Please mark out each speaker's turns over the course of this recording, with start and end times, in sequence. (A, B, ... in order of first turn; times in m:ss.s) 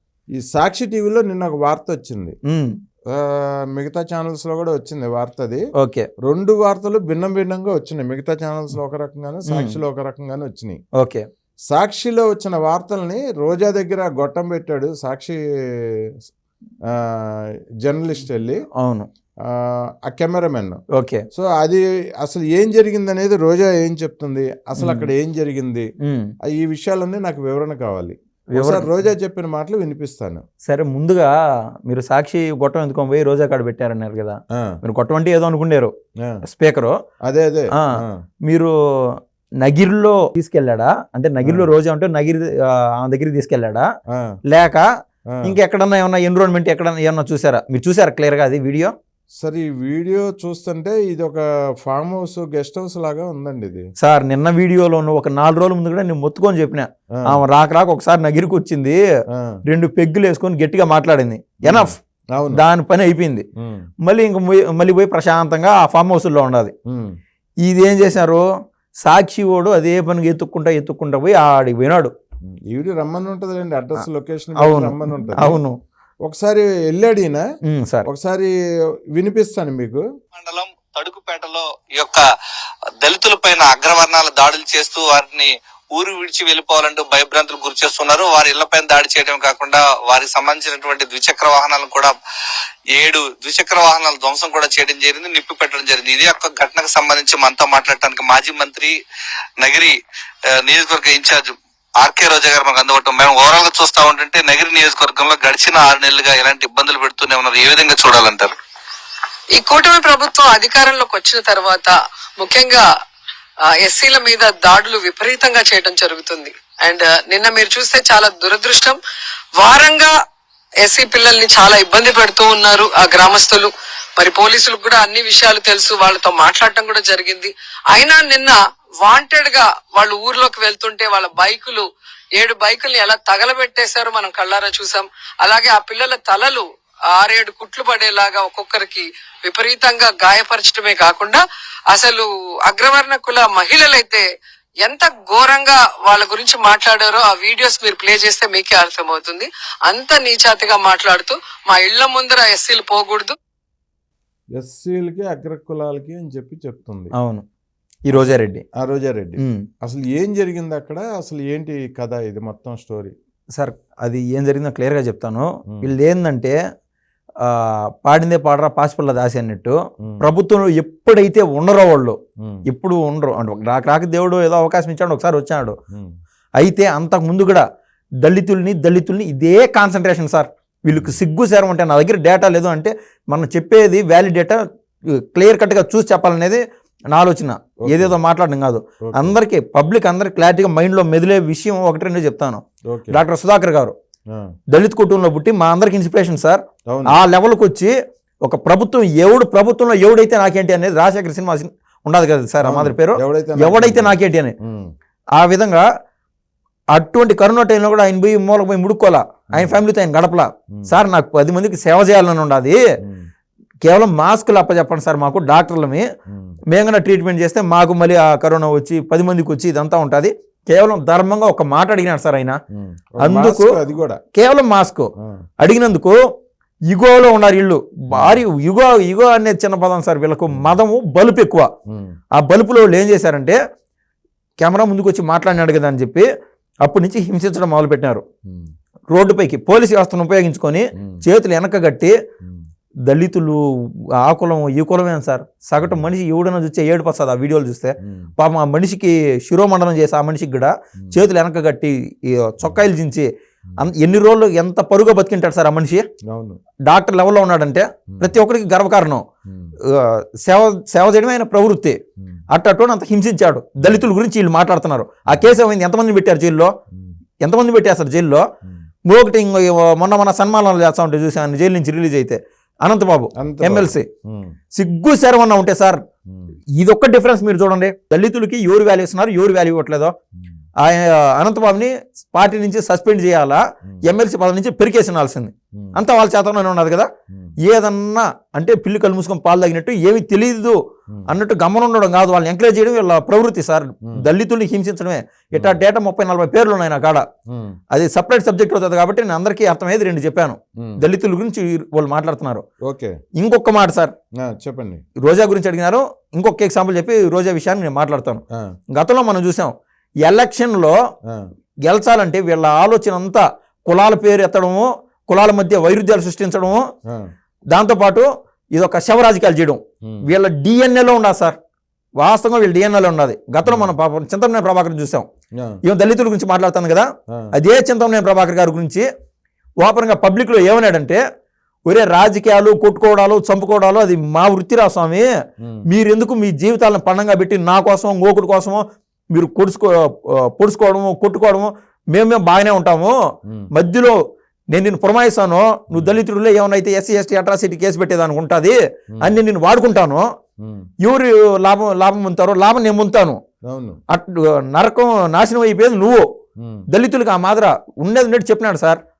0:00.3-0:02.4 A
0:02.4-0:02.8 B
0:03.1-0:05.6 A
0:05.8-0:06.1 B
0:06.2-0:10.8 A
0:09.5-0:09.8 B
0:11.0-0:11.3 B
0:11.7-0:16.1 A
0:16.9-0:18.6 A
0:18.7-0:19.1 B
0:19.4-0:20.8 A
0:20.9-0:21.2 B
0:21.3-0:25.9 A
0:24.8-0:25.1 B
0:26.0-0:26.3 B
0:26.4-0:30.4 A
0:28.5-0:28.9 B
0:30.6-0:31.3 B
0:31.8-0:35.9 B
0:34.5-0:34.8 A
0:36.4-0:37.0 B
0:37.2-0:38.2 A
0:37.7-0:43.9 B
0:41.4-0:41.7 A
0:44.1-0:44.4 A
0:44.5-0:44.9 B
0:45.4-0:48.9 B
0:49.4-0:53.9 A
0:54.0-0:59.0 B
0:59.3-0:59.6 A
0:59.7-1:02.0 B
1:01.6-1:02.6 A
1:02.5-1:03.4 B
1:03.6-1:03.9 A
1:04.0-1:06.7 B
1:06.9-1:07.2 A
1:07.6-1:08.4 B
1:09.0-1:12.1 B
1:12.4-1:15.6 A
1:14.6-1:15.8 B
1:16.2-1:17.5 A
1:17.6-1:18.1 B
1:18.0-1:18.5 A
1:19.1-1:20.0 A
1:20.3-1:22.2 C
1:23.0-1:32.1 C
1:32.9-1:39.0 C
1:39.6-1:40.0 C
1:40.5-1:48.5 C
1:49.5-1:52.8 D
1:53.6-1:59.0 D
1:59.6-2:00.1 D
2:00.8-2:11.8 D
2:12.4-2:24.2 D
2:24.8-2:33.3 D
2:34.5-2:37.1 A
2:37.2-2:37.4 B
2:38.0-2:38.6 B
2:38.8-2:43.1 A
2:39.4-2:39.6 B
2:43.5-2:46.6 B
2:47.4-2:55.8 B
2:52.4-2:52.6 A
2:55.9-2:56.2 A
2:56.6-2:57.6 B
2:58.2-3:04.6 B
3:00.9-3:01.2 A
3:05.1-3:14.0 B
3:07.8-3:08.2 A
3:09.0-3:09.4 A
3:12.8-3:13.2 A
3:14.3-3:14.6 A
3:14.7-3:24.5 B
3:16.9-3:17.2 A
3:22.6-3:24.9 A
3:25.3-3:25.8 B
3:26.9-3:32.8 B
3:29.5-3:29.8 A
3:30.7-3:31.0 A
3:33.0-3:33.3 A
3:33.8-3:36.0 B
3:36.3-3:36.6 A
3:36.7-3:42.6 B
3:42.7-3:44.2 A
3:43.2-3:43.8 B
3:44.3-3:46.2 B
3:45.2-3:45.4 A
3:46.9-3:51.7 B
3:48.1-3:48.4 A
3:51.9-3:52.2 A
3:52.3-3:53.6 B
3:54.6-3:56.3 B
3:56.8-3:58.2 B
3:58.4-3:58.7 A
3:59.1-4:02.1 B
4:00.9-4:01.2 A
4:03.1-4:16.0 B
4:08.0-4:08.3 A
4:16.3-4:16.6 A
4:16.9-4:19.2 B
4:18.1-4:18.3 A
4:19.5-4:19.7 A
4:19.8-4:22.0 B
4:22.5-4:26.7 B
4:23.8-4:24.0 A
4:27.4-4:28.4 B
4:29.0-4:34.1 B
4:33.4-4:34.6 A
4:34.7-4:36.0 B
4:36.8-4:40.2 B
4:40.8-4:57.2 B
4:45.7-4:46.0 A
4:57.5-4:57.8 A
4:57.9-5:02.6 B
5:00.8-5:01.0 A
5:02.8-5:03.2 A
5:03.4-5:04.1 B
5:04.4-5:05.0 A
5:05.2-5:11.0 B
5:11.8-5:16.8 B
5:17.7-5:21.6 B
5:20.0-5:20.3 A
5:22.2-5:25.3 B
5:25.8-5:29.0 B
5:29.8-5:31.2 B
5:31.9-5:35.3 B
5:35.6-5:35.8 A
5:35.9-5:43.1 B
5:43.7-5:44.2 B
5:44.7-5:50.3 B
5:45.9-5:46.2 A
5:50.6-5:50.9 A
5:51.0-5:53.4 B
5:53.7-5:54.0 A
5:54.1-5:56.3 B
5:56.6-5:56.8 A
5:56.9-5:59.0 B